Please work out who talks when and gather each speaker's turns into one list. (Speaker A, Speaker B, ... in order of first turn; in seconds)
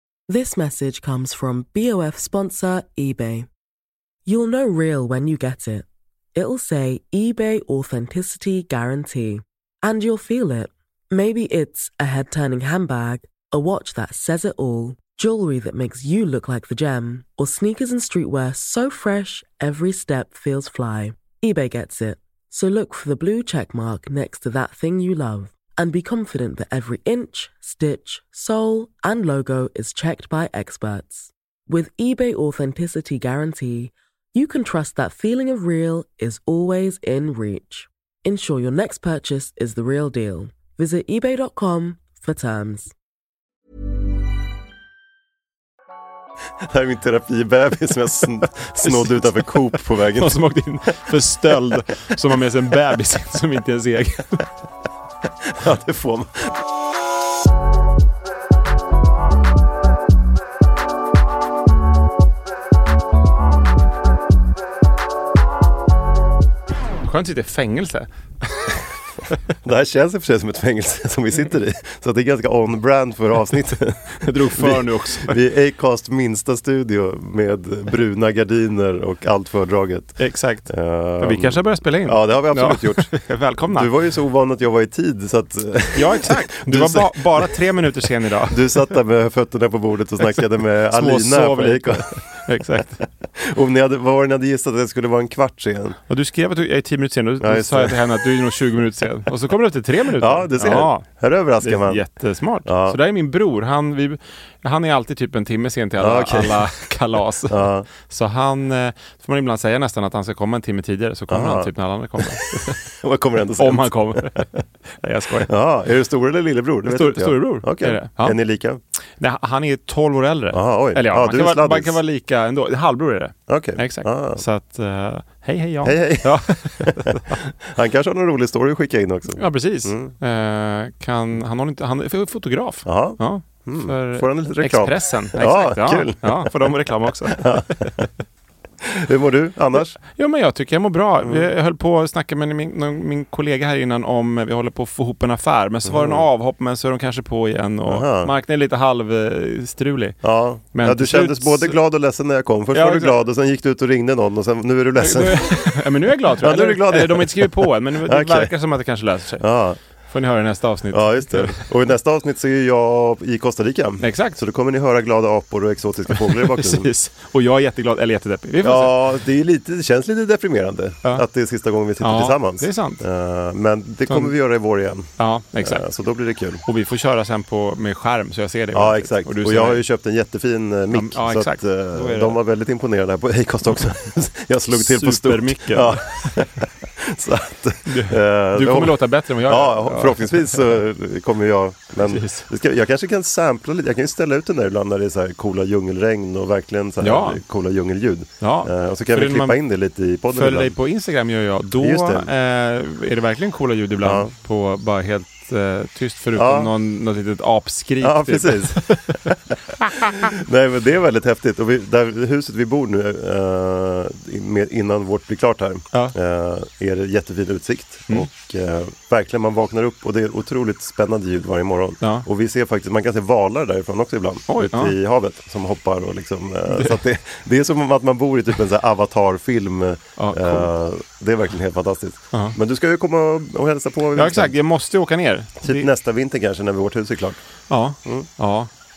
Speaker A: 0.3-3.5, 4.3-42.9
Speaker B: 46.7-50.4, 55.6-56.6, 69.6-87.6, 88.5-92.2, 93.4-96.0, 97.4-98.0, 100.2-102.0, 102.7-103.0, 106.0-106.7, 107.5-107.9, 111.3-114.5, 115.5-118.8, 120.5-122.0, 123.5-124.4, 125.8-130.1, 132.8-136.6, 137.3-138.1, 138.8-140.0, 145.8-146.3, 147.9-148.3, 150.2-155.6, 156.4-158.5, 159.4-159.8, 160.9-166.9, 168.6-176.6, 178.7-200.7, 201.8-202.3, 204.0-204.3, 206.3-206.7, 208.0-209.5, 210.1-234.6, 235.6-237.4
Speaker C: 48.8-54.4, 67.0-68.8, 74.2-75.4, 80.2-83.9, 86.0-88.9, 90.2-93.0, 96.1-101.1, 101.6-112.8, 113.6-115.5, 116.8-118.4, 119.2-127.3, 129.4-138.0, 140.0-151.8, 152.7-153.2, 155.0-159.5, 160.1-161.7, 164.0-164.4, 166.1-169.0, 172.0-173.0, 174.1-174.3, 175.2-175.9, 176.7-179.8, 180.9-182.4, 184.7-186.5, 187.9-190.7, 192.0-192.5, 197.0-197.4, 198.4-199.6, 200.3-209.2, 209.8-210.2, 222.0-222.3, 224.5-224.9, 226.7-227.0, 230.2-230.7, 234.2-235.9, 237.7-238.7